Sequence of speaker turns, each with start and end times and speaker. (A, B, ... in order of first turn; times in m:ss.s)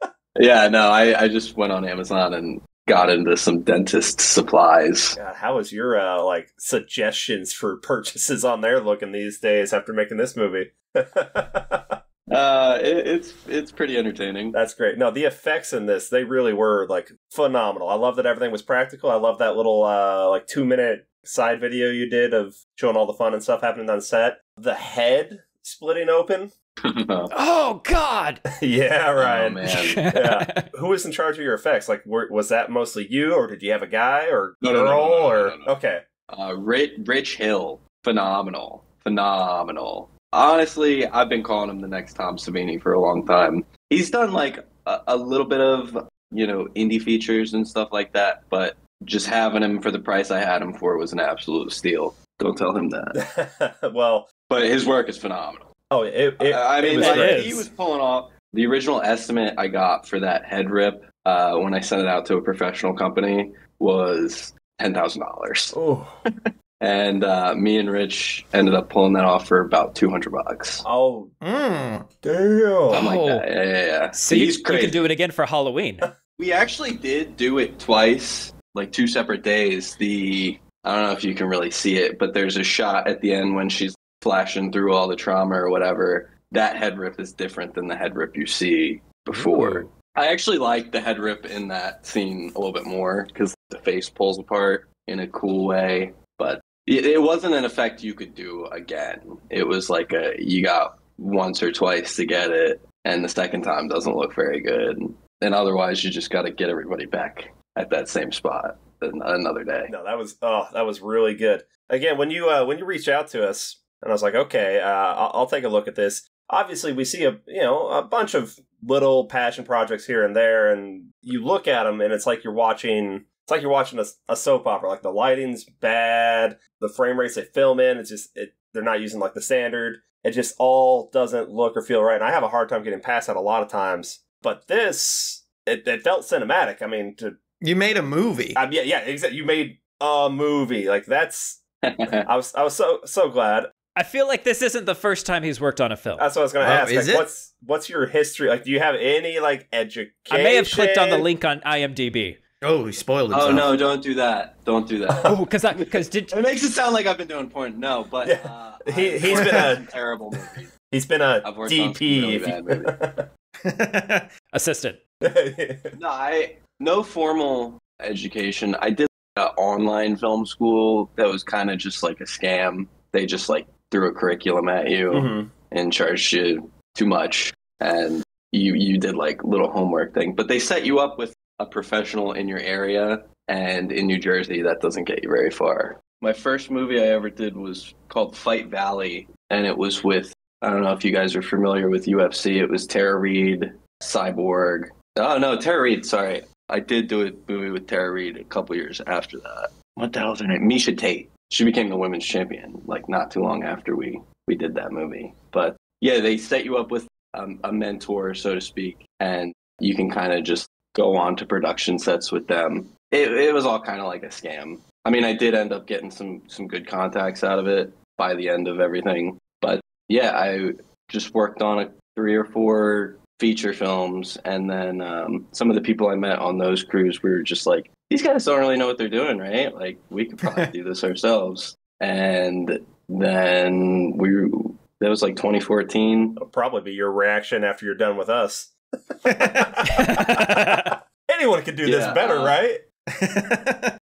0:00.4-0:05.2 A
0:05.2-0:12.0 B
0:12.3-0:14.6 A
0:14.5-0:26.5 B
0:26.8-0:27.3 A
0:27.3-0:28.4 C
0:28.6-0:36.0 B
0:29.2-0:30.0 A
0:29.7-0:30.6 C
0:34.6-0:35.7 A
0:36.3-0:53.2 A
0:53.1-0:54.3 B
0:54.4-0:55.7 A
0:55.9-0:57.6 B
0:56.4-1:05.8 A
0:57.0-0:57.6 C
1:05.7-1:06.1 B
1:06.8-1:10.8 A
1:10.8-1:11.3 B
1:11.4-1:12.1 D
1:12.2-1:13.1 B
1:12.9-1:13.4 C
1:12.9-1:15.0 A
1:14.1-1:16.0 C
1:16.4-1:49.9 A
1:29.3-1:29.9 C
1:49.9-2:17.4 B
2:17.6-2:18.6 D
2:18.6-2:21.6 B
2:21.8-2:22.3 A
2:22.2-2:23.7 B
2:23.9-2:26.2 C
2:26.2-2:31.3 B
2:26.6-2:27.3 D
2:30.3-2:32.4 C
2:32.6-2:33.7 D
2:33.3-2:35.3 A
2:35.2-2:36.4 C
2:36.3-2:40.7 A
2:38.2-2:39.9 B
2:40.9-2:43.3 B
2:41.4-2:42.9 A
2:43.6-2:44.3 D
2:44.5-2:45.0 C
2:45.2-2:46.0 B
2:45.9-3:56.4 A
2:55.1-2:55.5 B
3:50.4-3:50.7 D
3:56.4-4:02.8 B
3:59.3-4:00.2 D
4:00.0-4:00.8 C
4:01.8-4:02.6 A
4:03.1-4:03.9 D